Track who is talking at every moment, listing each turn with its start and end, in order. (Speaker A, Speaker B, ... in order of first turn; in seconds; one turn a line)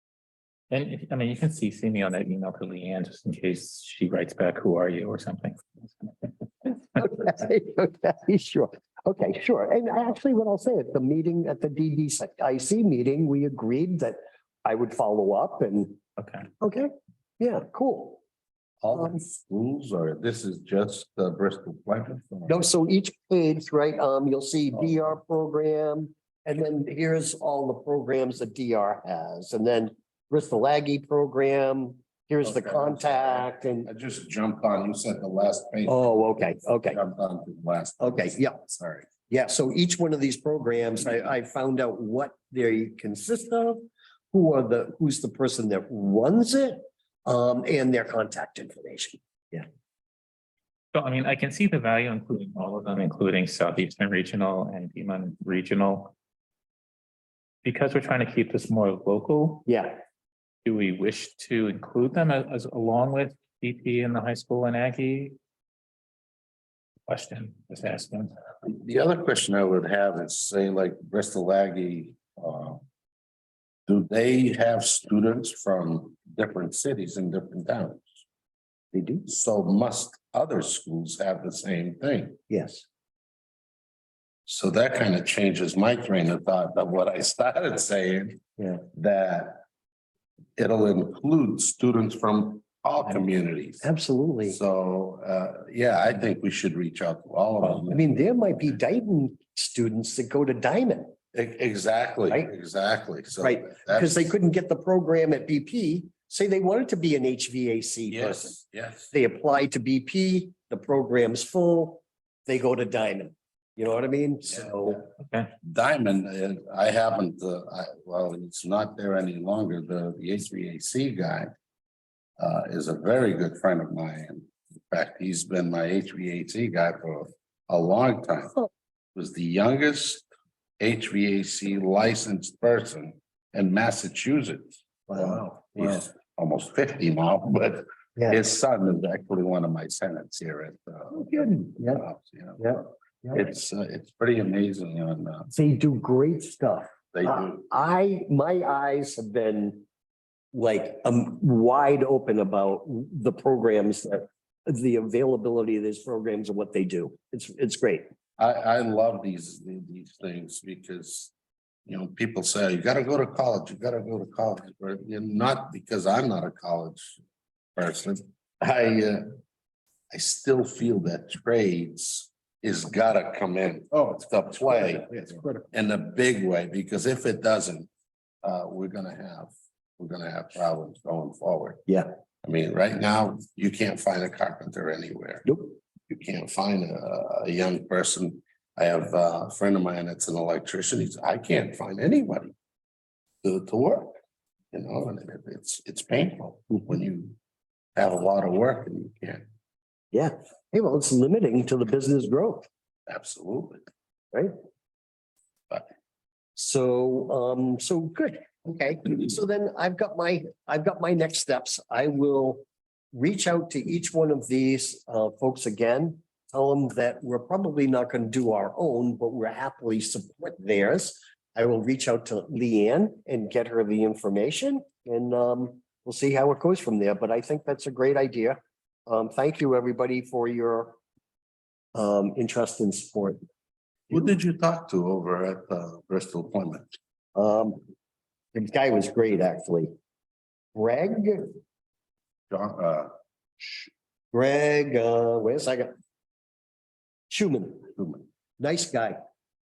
Speaker A: 0.7-6.3
Speaker B: 6.7-16.0
Speaker A: 16.2-16.4
Speaker B: 16.6-18.2
Speaker C: 18.8-22.6
Speaker B: 22.5-33.9
Speaker C: 32.4-36.1
Speaker B: 35.9-37.0
Speaker C: 36.9-39.1
Speaker B: 38.0-38.6
Speaker B: 39.3-49.7
Speaker A: 50.9-56.1
Speaker A: 57.6-59.7
Speaker B: 59.7-60.0
Speaker A: 60.6-65.4
Speaker A: 67.1-68.3
Speaker C: 68.6-72.8
Speaker C: 73.9-78.2
Speaker B: 78.9-79.3
Speaker C: 79.3-82.4
Speaker B: 82.5-82.9
Speaker C: 84.5-88.4
Speaker B: 88.6-88.8
Speaker C: 88.9-89.6
Speaker C: 90.6-93.8
Speaker B: 93.8-94.6
Speaker C: 94.5-98.1
Speaker B: 97.9-101.2
Speaker C: 101.3-104.3
Speaker B: 103.4-108.6
Speaker C: 108.1-109.1
Speaker B: 109.1-115.1
Speaker C: 114.6-115.0
Speaker A: 115.3-115.5
Speaker C: 115.6-121.5
Speaker C: 122.4-128.6
Speaker C: 129.2-130.2
Speaker C: 130.8-145.5
Speaker B: 135.1-136.0
Speaker B: 141.1-142.0
Speaker B: 142.6-143.4
Speaker B: 145.5-149.8
Speaker C: 147.1-147.7
Speaker B: 150.5-158.1
Speaker C: 158.4-161.3
Speaker C: 161.9-167.2
Speaker C: 167.8-169.3
Speaker C: 170.1-175.1
Speaker B: 174.7-175.7
Speaker C: 175.7-177.9
Speaker C: 178.4-181.9
Speaker C: 182.4-185.5
Speaker B: 185.5-185.7
Speaker C: 186.1-192.5
Speaker C: 193.4-194.2
Speaker C: 194.7-197.4
Speaker C: 197.9-199.4
Speaker B: 200.1-202.7
Speaker C: 203.1-203.8
Speaker B: 206.6-231.0
Speaker B: 231.9-233.4
Speaker C: 234.1-236.9
Speaker B: 237.3-237.8
Speaker B: 238.5-239.9
Speaker B: 240.7-241.6
Speaker C: 242.5-243.9
Speaker B: 244.3-245.9
Speaker B: 247.3-247.9
Speaker C: 248.0-248.2
Speaker B: 248.6-249.2